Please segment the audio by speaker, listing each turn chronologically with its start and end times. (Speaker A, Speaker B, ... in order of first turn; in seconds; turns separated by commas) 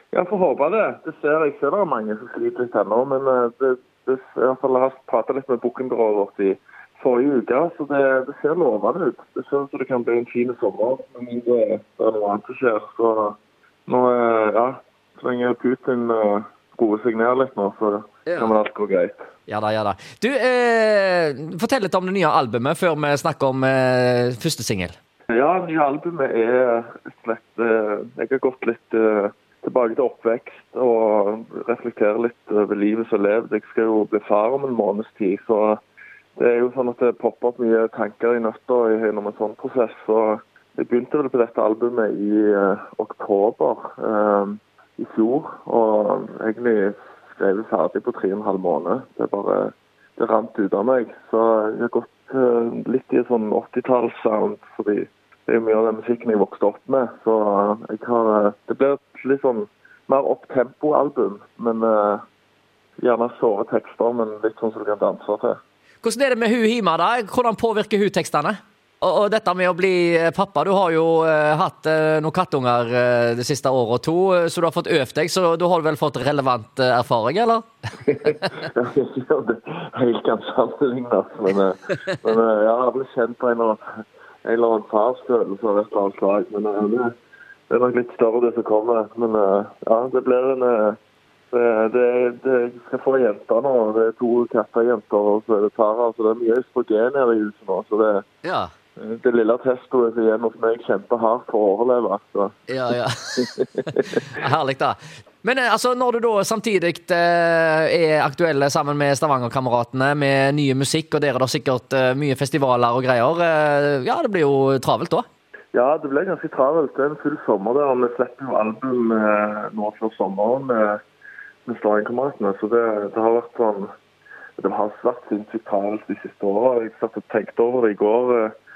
Speaker A: 0.1-13.3, Speaker A: 13.9-19.1, Speaker B: 18.2-18.5, Speaker B: 19.5-24.9, Speaker A: 25.3-35.8, Speaker A: 36.4-62.2, Speaker A: 63.0-65.6, Speaker B: 66.0-77.6, Speaker A: 78.2-83.8, Speaker A: 84.4-87.1, Speaker A: 87.7-91.0, Speaker A: 91.5-98.2, Speaker B: 98.4-98.7, Speaker A: 99.0-104.2, Speaker B: 102.7-115.2, Speaker A: 115.7-121.0, Speaker A: 121.7-123.9, Speaker A: 124.6-128.5